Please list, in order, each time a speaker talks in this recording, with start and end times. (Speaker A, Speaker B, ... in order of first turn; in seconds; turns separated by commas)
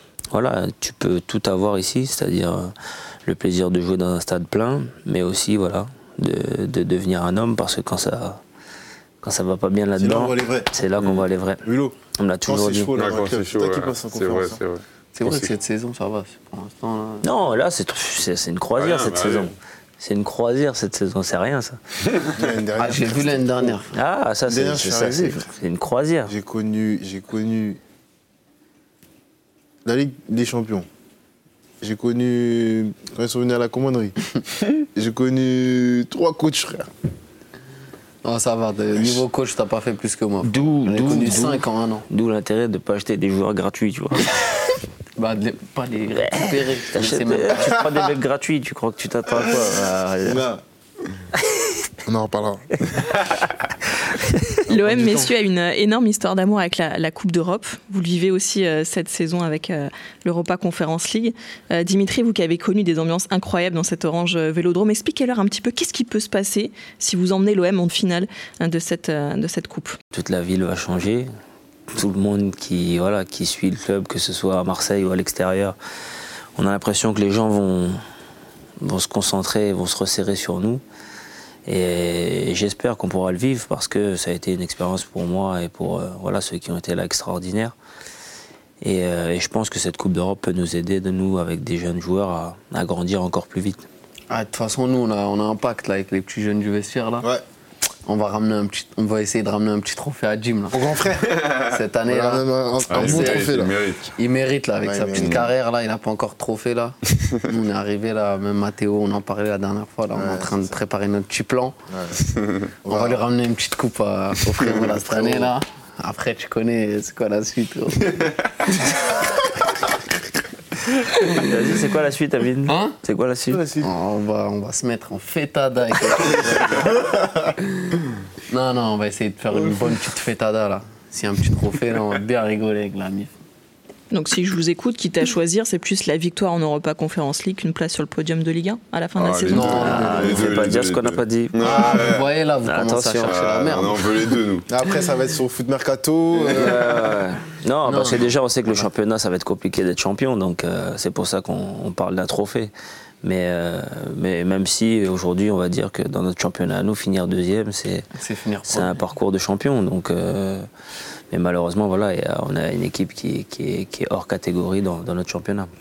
Speaker A: 0.3-2.7, Speaker A: 3.2-8.4, Speaker A: 9.2-11.6, Speaker B: 10.0-10.7, Speaker C: 11.0-11.2, Speaker B: 11.6-14.6, Speaker A: 12.2-12.9, Speaker C: 12.9-15.5, Speaker D: 15.1-17.3, Speaker A: 17.2-21.8, Speaker C: 18.8-19.5, Speaker B: 22.4-23.8, Speaker D: 22.8-23.9, Speaker A: 23.9-26.3, Speaker B: 24.5-25.4, Speaker B: 26.2-27.8, Speaker B: 29.8-30.9, Speaker B: 31.8-36.9, Speaker D: 38.2-42.0, Speaker A: 40.4-44.3, Speaker D: 45.2-47.9, Speaker A: 46.1-50.5, Speaker B: 50.2-50.6, Speaker B: 52.0-52.8, Speaker B: 54.7-55.3, Speaker E: 54.7-70.0, Speaker A: 70.1-71.3, Speaker A: 71.9-75.8, Speaker A: 76.5-78.0, Speaker A: 78.8-80.8, Speaker A: 81.6-87.7, Speaker A: 88.8-93.8, Speaker D: 94.3-97.3, Speaker D: 98.0-100.8, Speaker B: 100.7-101.3, Speaker C: 101.3-101.8, Speaker D: 101.5-103.5, Speaker B: 102.1-103.8, Speaker C: 102.9-104.1, Speaker D: 104.2-111.8, Speaker B: 104.8-105.4, Speaker C: 105.2-105.5, Speaker B: 110.1-110.7, Speaker B: 111.9-112.2, Speaker B: 112.8-113.2, Speaker D: 112.8-119.2, Speaker B: 114.9-115.5, Speaker A: 121.3-123.6, Speaker D: 122.7-123.0, Speaker B: 123.5-123.9, Speaker D: 123.8-126.9, Speaker B: 126.8-127.4, Speaker D: 128.5-133.3, Speaker E: 134.1-140.1, Speaker C: 139.2-142.3, Speaker D: 139.5-140.6, Speaker A: 139.7-141.9, Speaker D: 141.6-144.4, Speaker A: 142.6-143.4, Speaker C: 143.2-144.7, Speaker B: 144.7-147.0, Speaker D: 146.5-146.7, Speaker A: 146.5-158.1, Speaker D: 147.8-148.3, Speaker D: 158.2-159.0, Speaker A: 158.7-160.7, Speaker A: 161.3-165.7